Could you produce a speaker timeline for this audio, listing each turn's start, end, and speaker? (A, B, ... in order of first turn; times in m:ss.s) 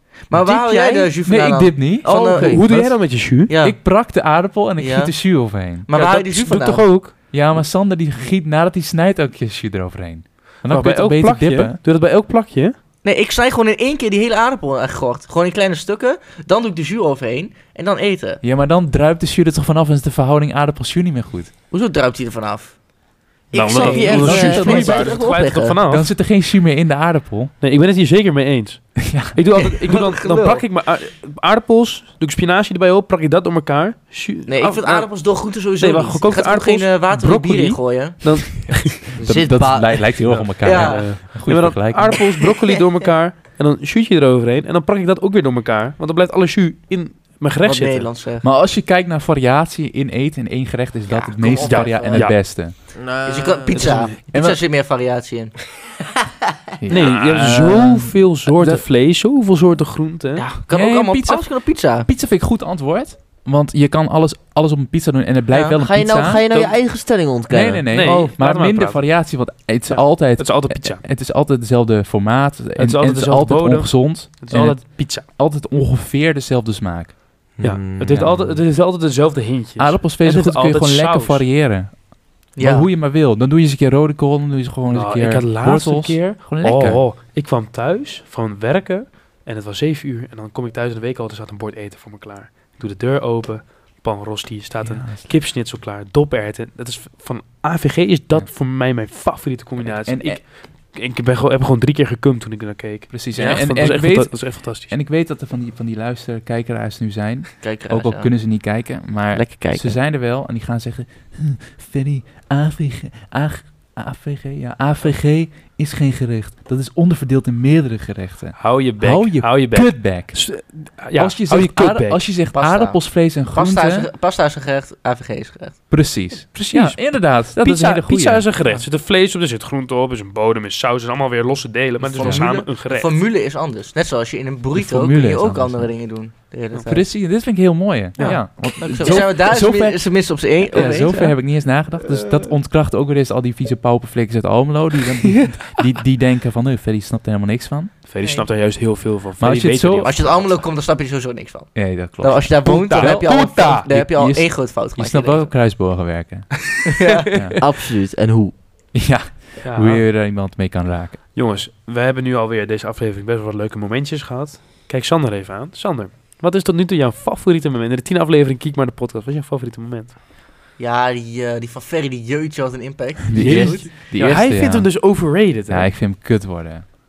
0:00.3-0:02.6 A
0:00.3-0:01.1 B
0:01.2-0:05.9 C
0:02.1-0:02.6 D
0:02.4-0:03.5 B
0:03.5-0:03.8 A
0:04.8-0:06.9 A
0:05.9-0:07.1 B
0:07.3-0:11.8 C
0:10.7-0:12.8 B
0:13.0-0:18.4 A
0:18.4-0:21.5 C
0:21.7-0:22.8 A
0:23.5-0:25.2 D
0:23.5-0:26.1 B
0:23.7-0:25.9 A
0:24.1-0:25.2 C
0:25.9-0:27.5 C
0:27.6-0:35.1 B
0:29.0-0:29.4 C
0:29.6-0:30.6 A
0:34.5-0:38.6 A
0:35.8-0:39.0 B
0:39.2-0:40.2 D
0:39.2-0:42.2 C
0:40.2-0:48.1 B
0:40.6-0:41.2 A
0:47.6-0:48.4 A
0:48.4-0:52.7 C
0:51.1-0:52.5 A
0:51.6-0:52.4 B
0:52.9-0:54.1 D
0:53.2-0:55.6 A
0:53.7-0:54.2 B
0:54.3-0:54.6 C
0:56.8-0:58.8 C
0:56.9-1:00.5 B
1:00.4-1:02.1 A
1:00.7-1:06.8 C
1:05.8-1:08.3 D
1:07.5-1:17.2 C
1:07.9-1:09.0 B
1:09.9-1:11.0 B
1:12.8-1:15.3 B
1:17.6-1:18.6 D
1:17.6-1:21.4 B
1:18.1-1:18.5 C
1:19.8-1:27.0 C
1:22.6-1:22.9 A
1:24.9-1:44.9 B
1:34.8-1:35.4 C
1:39.8-1:40.4 C
1:43.1-2:00.4 C
1:47.6-1:48.3 A
1:49.3-1:50.0 A
1:58.6-2:02.2 B
2:01.2-2:04.1 C
2:02.5-2:05.8 A
2:05.9-2:08.8 C
2:06.6-2:13.2 B
2:12.0-2:17.0 A
2:12.2-2:12.5 C
2:14.7-2:15.9 C
2:16.9-2:27.9 C
2:18.2-2:19.2 B
2:18.2-2:21.3 A
2:28.1-2:30.6 B
2:28.2-2:28.5 A
2:29.4-2:30.4 C
2:30.0-2:35.5 A
2:31.7-2:36.7 C
2:32.6-2:33.9 B
2:36.9-2:37.3 A
2:37.0-2:37.5 B
2:37.6-2:38.6 D
2:38.9-2:41.2 C
2:39.6-2:40.1 B
2:41.4-2:50.2 B
2:50.8-2:53.9 A
2:53.3-2:54.9 C
2:53.3-2:55.9 B
2:55.7-2:56.8 C